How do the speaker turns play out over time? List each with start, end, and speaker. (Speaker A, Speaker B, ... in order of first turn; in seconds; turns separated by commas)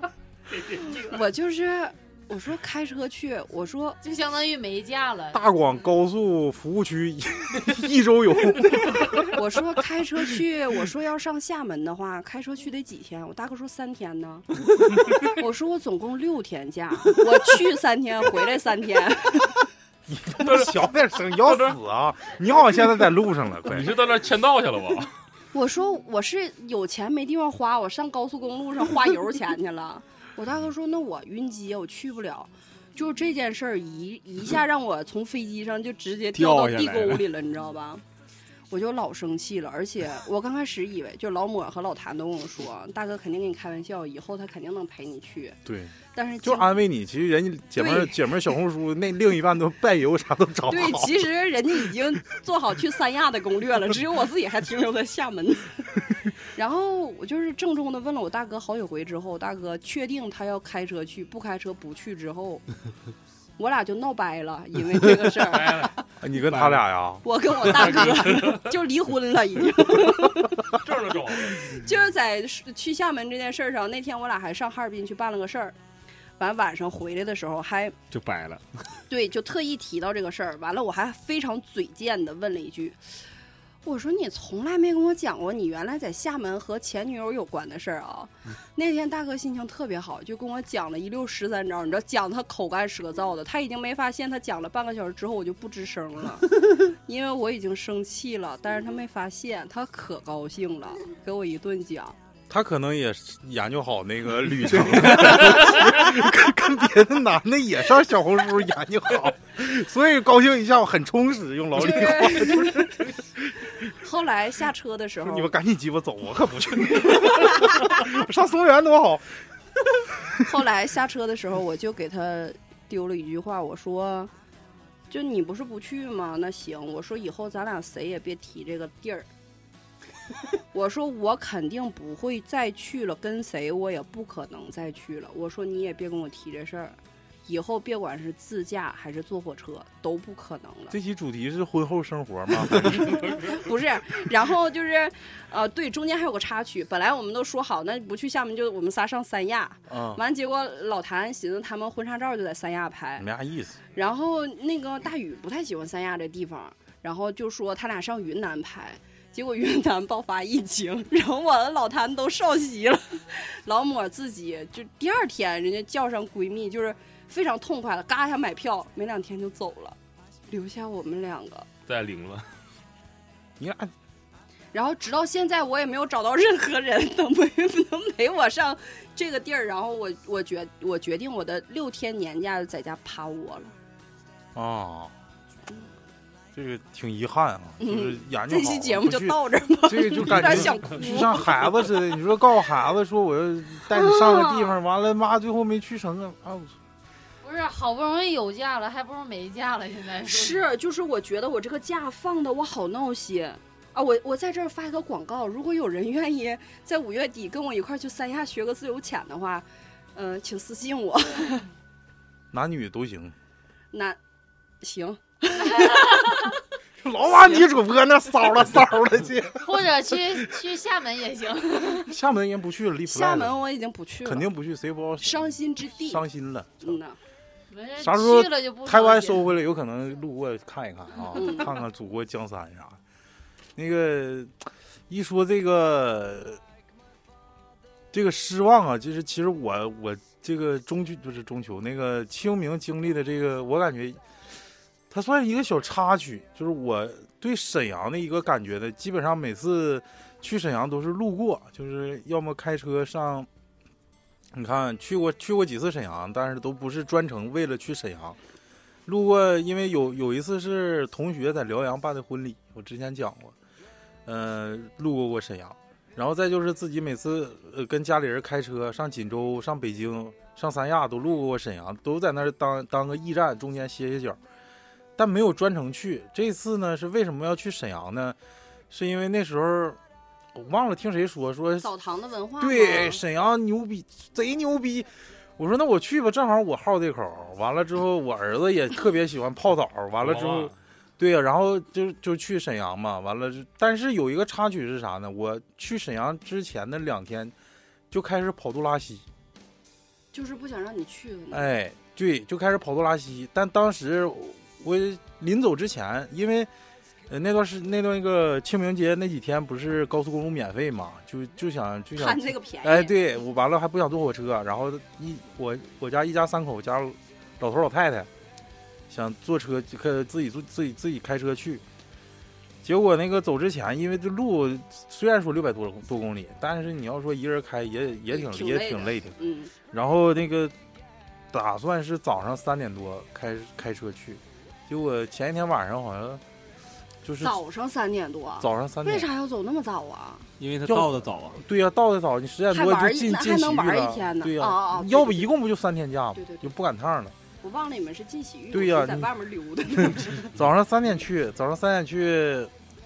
Speaker A: 0.9-4.0, Speaker B: 4.0-5.4, Speaker C: 5.3-9.4, Speaker A: 9.3-19.7, Speaker C: 20.1-23.9, Speaker D: 20.4-21.8, Speaker D: 23.6-25.1, Speaker A: 25.5-38.0, Speaker E: 36.3-37.3, Speaker A: 38.7-45.6, Speaker C: 45.6-51.2, Speaker A: 46.1-46.8, Speaker A: 47.8-48.5, Speaker A: 50.7-62.6, Speaker A: 63.6-66.0, Speaker D: 65.5-65.9, Speaker C: 66.2-67.2, Speaker E: 66.5-66.8, Speaker A: 67.2-70.7, Speaker D: 67.8-68.7, Speaker D: 70.8-71.8, Speaker A: 71.6-75.8, Speaker A: 76.4-78.0, Speaker E: 78.1-79.0, Speaker A: 79.1-83.0, Speaker A: 83.8-102.2, Speaker C: 102.5-113.6, Speaker A: 111.8-113.1, Speaker A: 113.9-115.5, Speaker C: 115.2-119.2, Speaker A: 120.4-124.3, Speaker A: 125.1-129.3, Speaker A: 130.7-140.9, Speaker C: 140.9-143.2, Speaker A: 142.7-153.3, Speaker C: 149.9-150.2, Speaker C: 153.2-153.8, Speaker A: 153.9-170.0, Speaker A: 170.5-171.7, Speaker D: 171.9-172.5, Speaker C: 173.6-173.9, Speaker A: 174.7-183.7, Speaker C: 184.5-185.1, Speaker C: 186.5-196.7, Speaker A: 187.8-192.0, Speaker A: 193.9-194.8, Speaker B: 197.4-200.6, Speaker A: 200.2-211.7, Speaker C: 212.5-213.3, Speaker A: 213.9-214.2, Speaker A: 214.8-216.5, Speaker B: 215.7-216.1, Speaker C: 217.0-220.5, Speaker B: 219.6-222.1, Speaker C: 222.1-223.6, Speaker A: 223.1-224.5, Speaker C: 224.2-227.0, Speaker A: 225.2-226.2, Speaker A: 226.8-227.2, Speaker B: 227.7-229.5, Speaker C: 228.0-233.0, Speaker A: 231.3-231.8, Speaker C: 233.8-236.6, Speaker C: 238.1-244.2, Speaker C: 245.1-253.5, Speaker C: 254.5-258.4, Speaker C: 259.1-263.6, Speaker C: 264.2-274.4, Speaker C: 275.2-278.4, Speaker C: 278.9-280.0, Speaker C: 280.5-281.9, Speaker A: 281.8-283.2, Speaker C: 282.6-297.5, Speaker D: 290.2-290.8, Speaker C: 298.1-299.2, Speaker A: 300.3-301.7, Speaker C: 301.5-306.7, Speaker C: 307.3-318.3, Speaker A: 312.1-313.1, Speaker C: 319.1-321.8, Speaker C: 322.8-329.3, Speaker A: 328.3-329.7, Speaker C: 329.9-330.8, Speaker C: 331.5-336.4, Speaker C: 337.2-337.6, Speaker A: 337.4-340.5, Speaker C: 338.6-339.3, Speaker E: 340.6-341.6, Speaker C: 340.9-347.4, Speaker A: 342.7-345.5, Speaker A: 346.4-346.7, Speaker A: 347.6-350.6, Speaker C: 348.7-349.3, Speaker C: 350.0-352.7